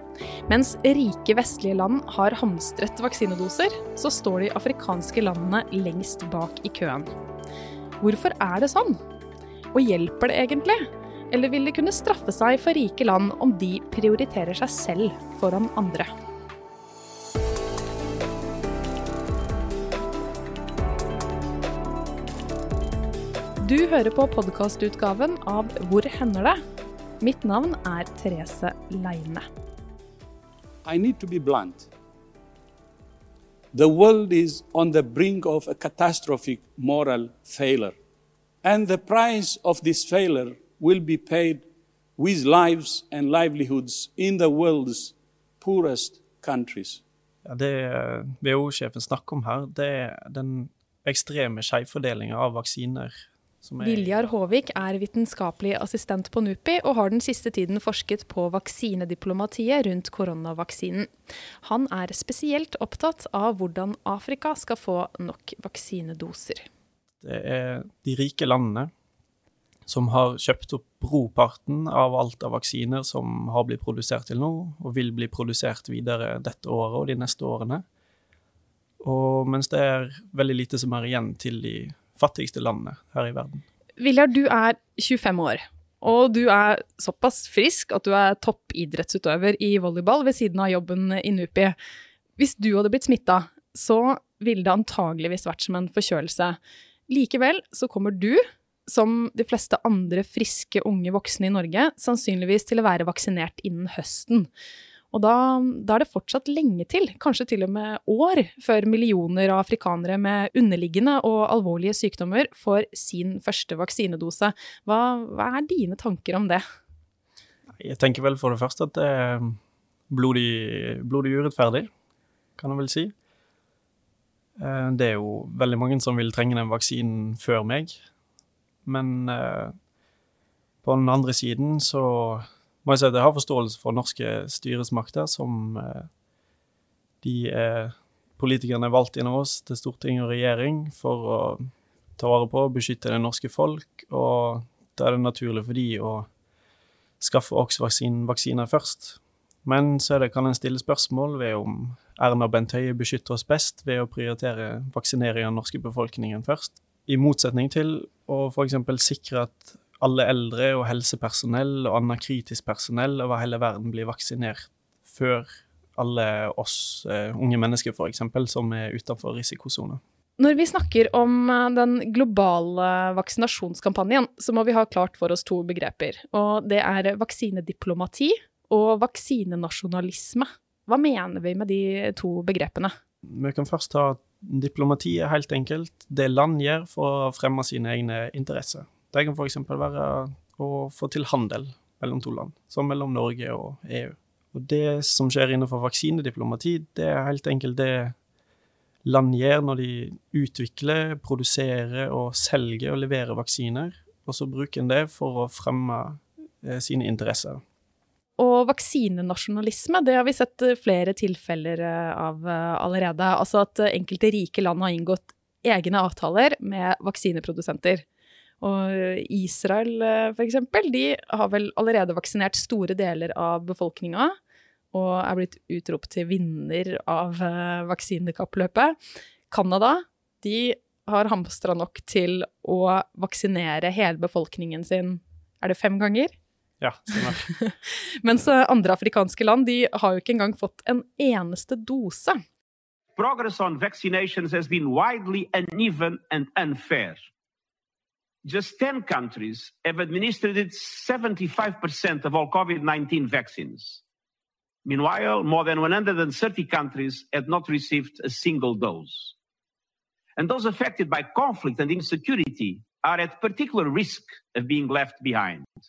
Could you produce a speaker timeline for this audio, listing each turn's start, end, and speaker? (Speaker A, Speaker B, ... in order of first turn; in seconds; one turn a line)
Speaker A: 0.5-7.1
Speaker A: 8.0-9.0
Speaker A: 9.7-16.1
Speaker A: 23.6-26.6
Speaker A: 27.2-29.4
Speaker B: 30.8-31.9
Speaker B: 33.7-38.0
Speaker B: 38.6-41.6
Speaker B: 42.2-47.0
Speaker C: 47.4-54.1
Speaker A: 53.8-61.1
Speaker A: 61.6-66.6
Speaker C: 67.2-68.9
Speaker C: 69.9-77.8
Speaker C: 79.0-83.6
Speaker A: 84.0-91.7
Speaker A: 92.4-104.5
Speaker A: 105.1-116.6
Speaker C: 117.8-121.9
Speaker C: 122.6-123.1
Speaker C: 124.6-128.0
Speaker C: 128.8-129.7
Speaker C: 130.8-136.1
Speaker C: 137.2-146.3
Speaker C: 147.2-170.0
Speaker A: 170.4-182.9
Speaker C: 183.3-198.1
Speaker C: 199.0-207.6
Speaker A: 208.4-218.0
Speaker A: 218.6-224.3
Speaker A: 224.9-228.9
Speaker A: 229.5-236.3
Speaker C: 236.8-237.5
Speaker A: 237.2-242.4
Speaker D: 243.2-247.2
Speaker D: 248.4-254.0
Speaker D: 254.8-259.3
Speaker D: 260.4-265.7